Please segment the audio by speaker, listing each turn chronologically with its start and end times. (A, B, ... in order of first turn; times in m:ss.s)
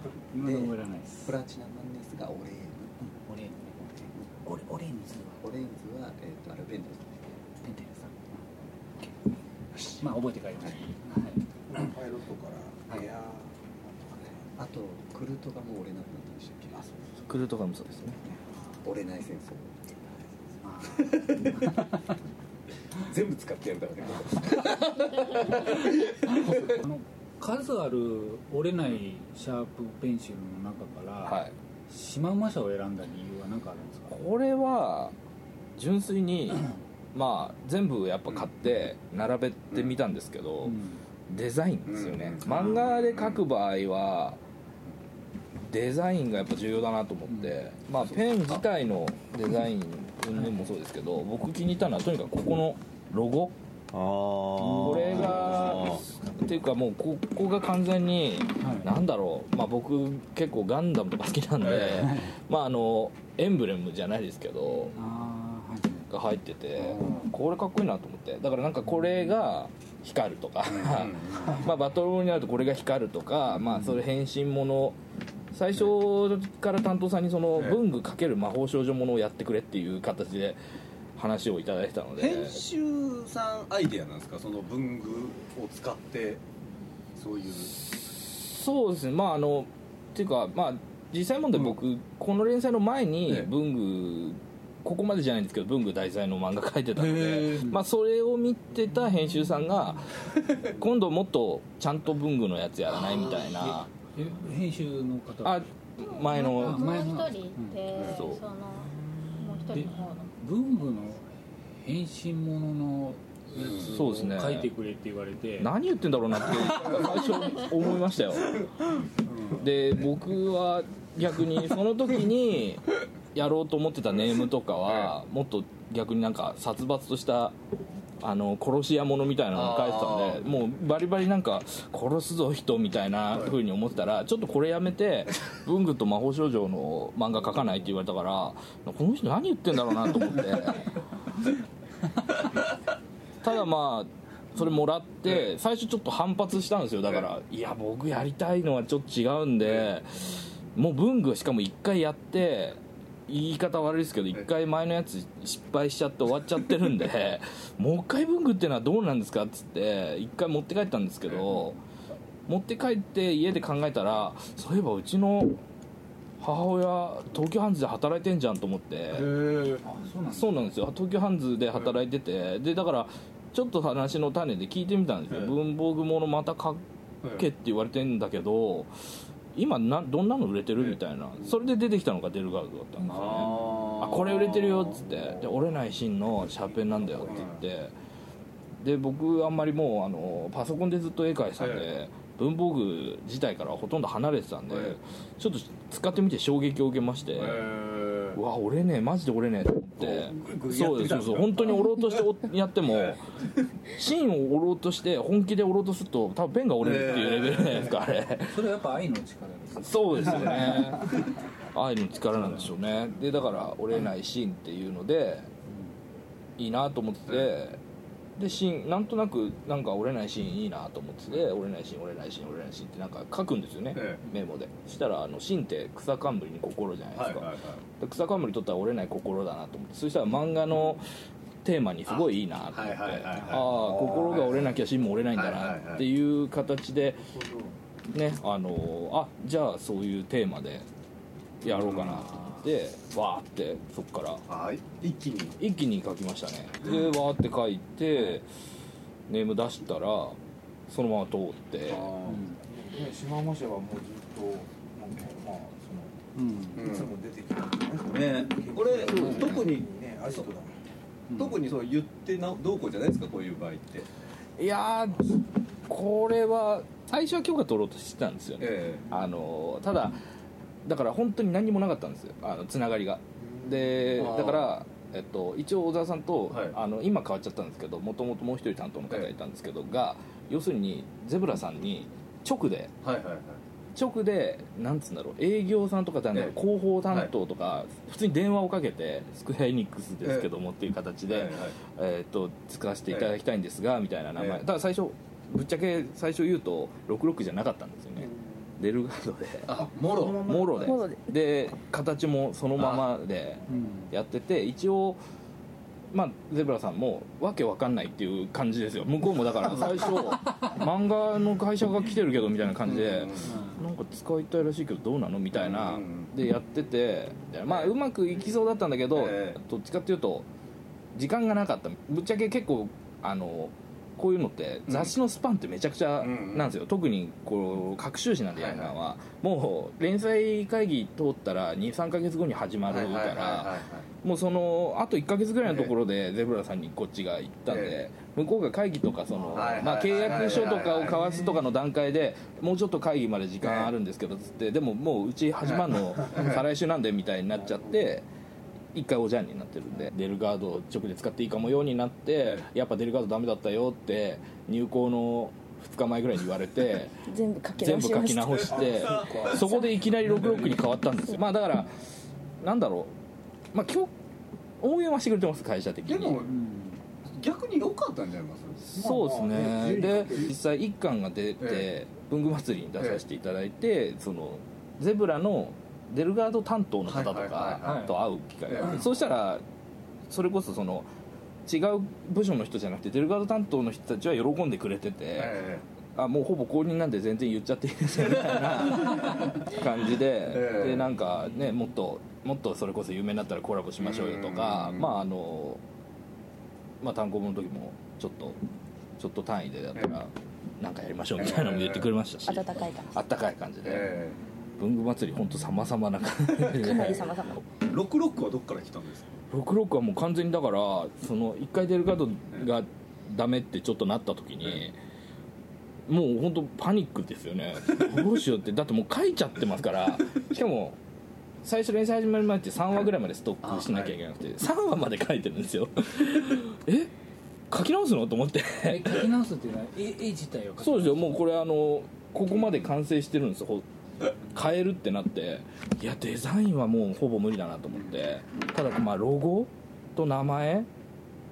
0:00.3-0:01.3 A
0:00.4-0:00.7 B
0:01.2-0:03.0 B
0:03.0-0:03.9 A
0:04.4-0:05.4 A
0:05.4-0:07.2 B
0:07.6-0:08.4 A
0:09.7-0:10.0 B
0:10.0-0:11.9 A
0:11.7-0:14.4 C
0:14.6-0:16.8 B
0:17.2-0:18.2 D
0:18.8-0:19.8 B
0:20.6-0:21.9 A
0:20.9-0:21.7 B
0:22.9-0:26.8 B
0:26.3-0:34.2 A
0:31.2-0:31.5 D
0:34.1-0:35.1 D
0:35.8-0:44.4 D
0:39.7-0:40.0 B
0:40.6-0:41.0 A
0:41.9-0:43.4 B
0:45.7-0:53.5 D
0:47.3-0:47.5 A
0:48.0-0:48.6 B
0:53.9-0:56.0 B
0:54.6-0:55.6 A
0:54.7-1:04.9 D
0:58.6-0:58.9 A
1:01.6-1:02.0 B
1:02.0-1:02.3 A
1:04.9-1:06.1 A
1:06.1-1:15.0 D
1:06.8-1:07.3 B
1:10.6-1:11.7 B
1:15.5-1:20.6 D
1:17.6-1:17.8 B
1:21.2-1:22.6 D
1:22.2-1:26.4 B
1:27.1-1:27.7 B
1:27.8-1:43.9 D
1:37.0-1:37.7 B
1:42.9-1:43.4 B
1:43.7-1:45.6 A
1:45.4-1:47.0 D
1:46.0-1:50.3 E
1:46.3-1:47.8 A
1:47.9-1:48.2 B
1:48.0-1:48.4 D
1:49.7-1:55.7 A
1:53.6-1:53.8 B
1:53.8-1:54.7 D
1:55.6-1:58.6 D
1:59.6-2:07.6 D
2:04.1-2:05.1 B
2:08.2-2:20.9 D
2:09.5-2:10.6 B
2:13.3-2:13.6 B
2:23.4-2:41.8 D
2:41.2-2:41.6 B
2:42.5-2:45.6 D
2:46.4-2:49.4 D
2:49.1-2:49.8 B
2:49.8-2:50.7 A
2:50.3-2:56.8 D
2:57.2-2:57.5 B
2:57.3-2:58.9 D
2:59.5-3:07.9 D
3:03.0-3:05.5 B
3:06.8-3:07.6 B
3:08.8-3:17.7 D
3:11.6-3:11.9 B
3:14.7-3:15.0 B
3:17.3-3:18.4 B
3:18.3-3:23.2 D
3:20.0-3:22.0 B
3:22.8-3:23.2 B
3:23.9-3:28.6 D
3:26.8-3:28.0 B
3:28.5-3:30.9 A
3:29.8-3:35.5 D
3:32.3-3:32.7 A
3:36.6-3:37.8 D
3:38.4-3:51.1 D
3:43.9-3:44.2 B
3:47.1-3:47.8 B
3:51.6-3:57.3 D
3:52.1-3:56.1 B
3:57.3-3:57.7 C
3:58.1-4:00.8 D
4:01.6-4:04.4 D
4:01.6-4:02.5 B
4:04.5-4:05.6 B
4:05.6-4:08.4 D
4:09.3-4:10.4 D
4:10.9-4:12.1 D
4:11.9-4:12.4 B
4:12.2-4:12.6 A
4:12.7-4:16.2 C
4:16.4-4:16.8 A
4:16.7-4:20.8 C
4:16.8-4:17.1 B
4:18.1-4:20.5 B
4:19.1-4:19.7 D
4:21.3-4:21.6 A
4:21.4-4:24.1 B
4:24.6-4:30.2 D
4:28.6-4:29.1 B
4:30.8-4:42.9 D
4:34.1-4:34.8 B
4:36.5-4:36.8 B
4:43.0-4:43.6 B
4:43.9-4:59.8 D
4:46.3-4:47.3 B
4:50.2-4:50.5 B
4:51.3-4:51.8 B
4:53.1-4:53.4 B
4:54.4-4:54.6 B
4:58.2-4:58.7 C
4:59.6-5:00.9 B
5:00.0-5:00.9 C
5:00.4-5:05.2 D
5:00.8-5:01.3 F
5:02.8-5:03.1 B
5:03.7-5:04.1 A
5:06.1-5:20.4 D
5:12.8-5:13.6 B
5:13.4-5:13.8 A
5:15.5-5:16.3 B
5:17.7-5:17.9 B
5:19.1-5:19.6 B
5:21.1-5:48.2 D
5:24.9-5:25.1 B
5:26.2-5:26.8 B
5:28.5-5:29.0 B
5:32.9-5:34.1 B
5:35.6-5:35.9 B
5:37.7-5:38.0 B
5:39.5-5:41.3 B
5:43.6-5:43.9 B
5:45.6-5:46.6 B
5:48.9-5:57.2 D
5:52.4-5:52.6 B
5:57.3-5:59.0 F
5:57.8-6:01.9 D
5:58.7-5:59.6 B
5:58.7-5:59.6 C
5:59.6-5:59.9 F
6:00.2-6:00.6 A
6:02.6-6:03.1 D
6:03.7-6:04.1 D
6:04.8-6:06.4 D
6:06.0-6:06.5 B
6:06.4-6:07.0 A
6:07.2-6:08.9 B
6:08.8-6:19.6 D
6:08.9-6:10.5 C
6:11.6-6:11.9 B
6:17.0-6:19.1 B
6:17.8-6:18.1 A
6:20.3-6:21.1 D
6:21.6-6:25.6 D
6:25.3-6:25.8 B
6:26.2-6:35.8 D
6:28.2-6:29.7 B
6:30.5-6:31.2 B
6:34.0-6:35.2 B
6:37.0-6:38.6 D
6:39.2-6:44.1 D
6:41.4-6:42.1 B
6:42.4-6:43.2 F
6:43.8-6:44.4 B
6:44.8-6:47.6 D
6:46.7-6:47.6 F
6:47.8-6:49.4 B
6:49.5-6:55.0 D
6:56.1-7:01.0 D
7:01.6-7:07.1 D
7:03.6-7:04.2 B
7:07.7-7:09.3 D
7:08.8-7:11.4 A
7:10.8-7:13.8 D
7:14.5-7:20.9 D